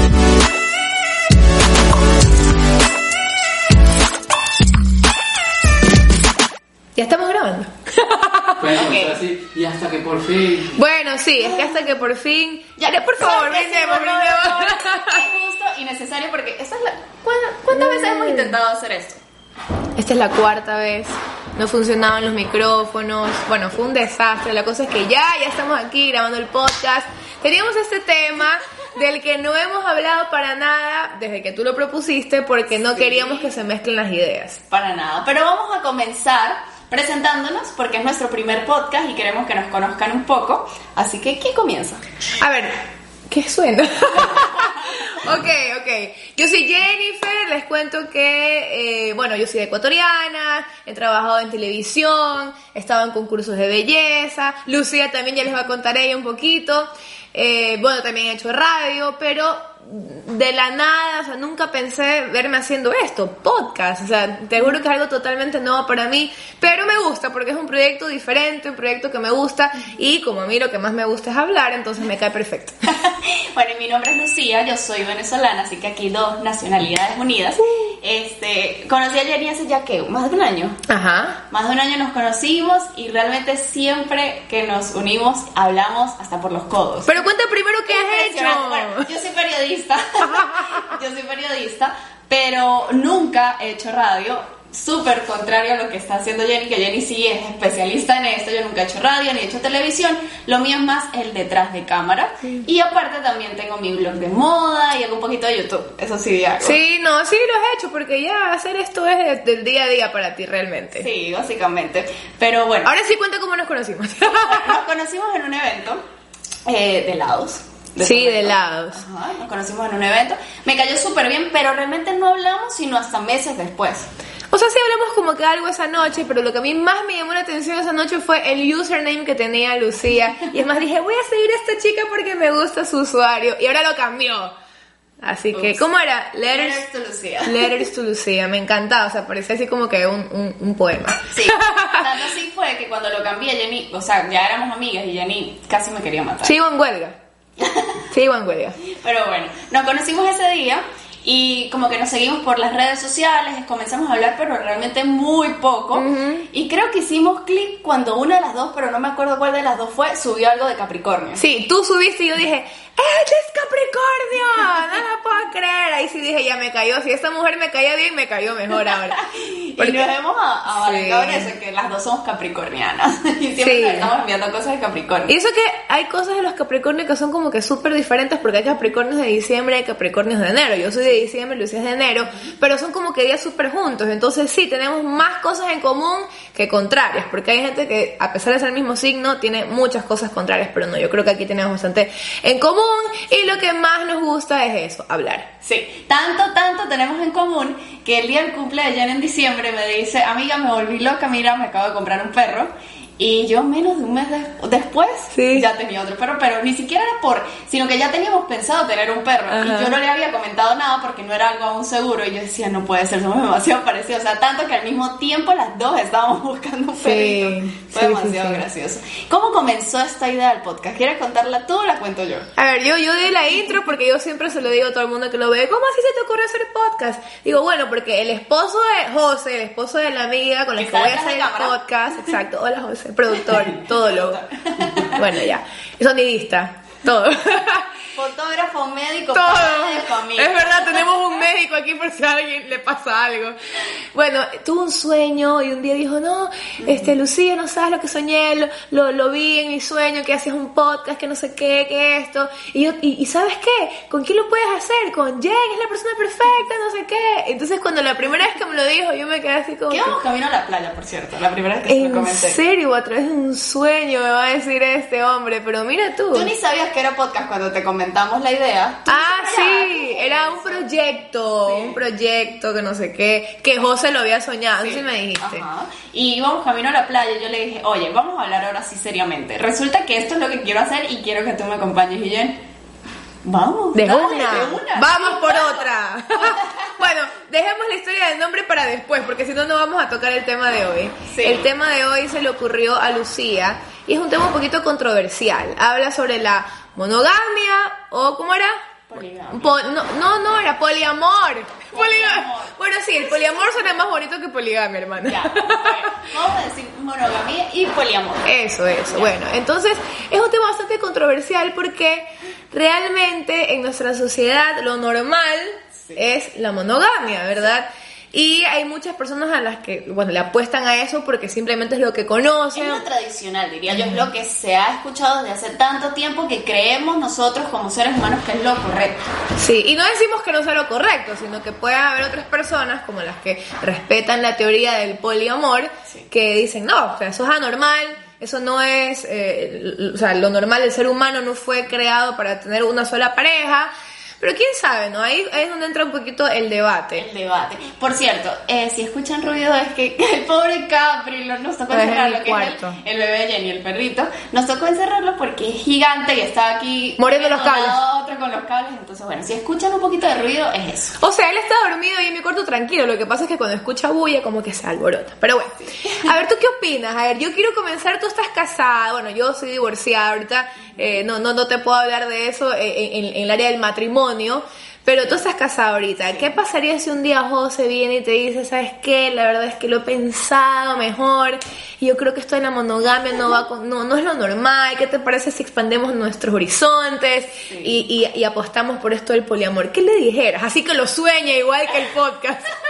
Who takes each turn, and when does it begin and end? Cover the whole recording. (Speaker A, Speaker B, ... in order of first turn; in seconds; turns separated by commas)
Speaker A: 7.0-8.7, Speaker B: 8.6-10.8, Speaker C: 8.8-9.2, Speaker A: 10.7-15.2, Speaker C: 11.4-11.8, Speaker C: 12.8-19.2, Speaker A: 17.7-18.5, Speaker A: 19.9-34.6, Speaker C: 32.9-33.5, Speaker C: 34.7-42.0, Speaker A: 42.4-72.8, Speaker C: 72.9-80.8, Speaker A: 80.9-81.4, Speaker C: 81.5-87.2, Speaker A: 87.1-89.1, Speaker C: 87.9-106.8, Speaker A: 90.2-90.8, Speaker A: 106.6-111.1, Speaker C: 111.0-112.9, Speaker A: 112.8-114.8, Speaker C: 114.2-116.0, Speaker C: 116.7-124.1, Speaker A: 118.0-119.0, Speaker A: 124.5-134.5, Speaker A: 135.2-136.8, Speaker C: 135.5-135.8, Speaker C: 136.5-137.8, Speaker A: 137.4-142.1, Speaker C: 141.3-146.5, Speaker A: 146.4-147.2, Speaker C: 147.6-148.0, Speaker A: 148.1-148.8, Speaker C: 148.8-161.4, Speaker A: 155.9-156.5, Speaker A: 161.4-169.2, Speaker C: 169.2-175.3, Speaker A: 169.8-170.1, Speaker A: 170.7-171.5, Speaker A: 173.6-174.1, Speaker A: 175.3-195.5, Speaker C: 195.6-222.5, Speaker A: 205.3-205.7, Speaker A: 209.5-209.9, Speaker A: 217.0-218.6, Speaker A: 222.6-234.4, Speaker C: 230.8-231.8, Speaker C: 233.4-235.2, Speaker A: 235.0-237.9, Speaker C: 238.1-241.1, Speaker A: 239.3-260.2, Speaker C: 246.8-247.1, Speaker C: 259.9-262.6, Speaker A: 261.9-266.5, Speaker C: 266.3-270.9, Speaker A: 269.1-275.6, Speaker C: 271.6-272.0, Speaker C: 274.8-282.6, Speaker C: 283.4-286.9, Speaker A: 283.9-298.8, Speaker C: 291.3-291.7, Speaker C: 299.1-299.7, Speaker A: 299.5-306.0, Speaker C: 301.9-304.1, Speaker C: 305.2-308.5, Speaker A: 308.4-323.0, Speaker C: 309.0-309.3, Speaker C: 322.7-329.2, Speaker A: 323.9-324.2, Speaker A: 329.6-347.2, Speaker C: 347.1-361.2, Speaker A: 351.9-353.0, Speaker A: 357.2-358.0, Speaker A: 361.2-392.7, Speaker C: 365.8-366.3, Speaker C: 387.6-388.0